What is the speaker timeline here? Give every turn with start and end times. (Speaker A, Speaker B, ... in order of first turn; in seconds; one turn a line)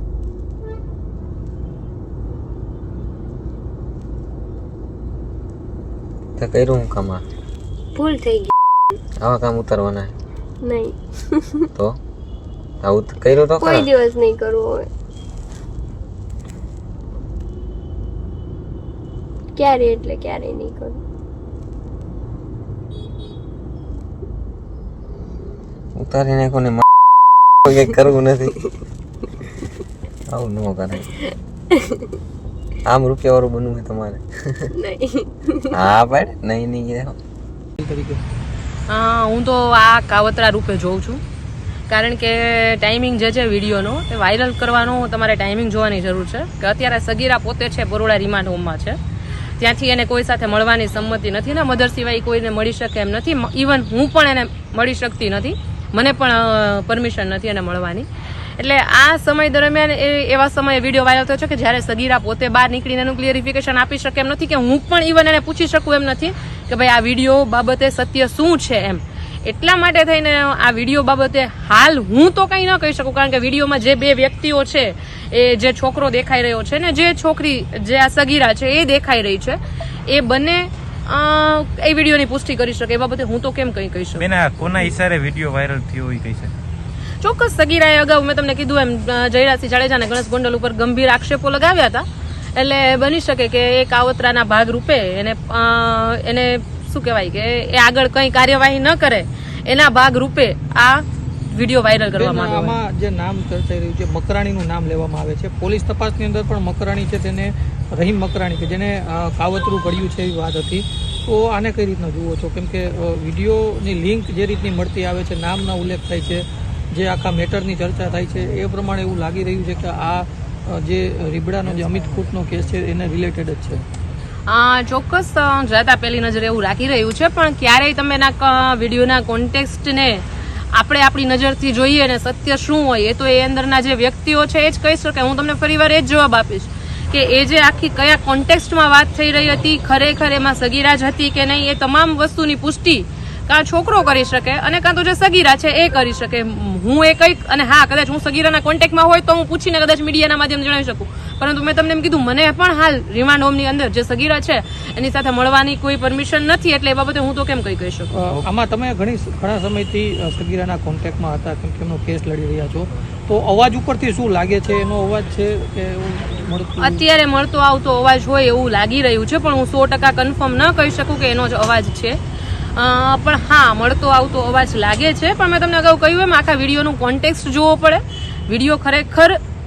Speaker A: 6.4-7.2
Speaker B: 8.0-8.5
Speaker A: 9.2-10.2
Speaker B: 10.6-11.7
Speaker A: 12.8-13.9
Speaker B: 13.6-14.9
Speaker B: 19.6-21.0
Speaker A: 26.0-26.8
Speaker A: 27.6-28.6
Speaker A: 30.3-31.1
Speaker B: 31.8-32.0
Speaker A: 32.9-34.7
Speaker B: 34.8-35.7
Speaker A: 35.7-37.2
Speaker C: 37.8-38.2
Speaker D: 38.9-41.2
Speaker D: 41.9-49.0
Speaker D: 49.6-85.0
Speaker E: 84.2-86.5
Speaker D: 87.2-102.8
Speaker C: 102.2-123.8
Speaker D: 124.5-158.4
Speaker C: 158.2-167.0
Speaker D: 166.8-172.2
Speaker D: 172.8-179.4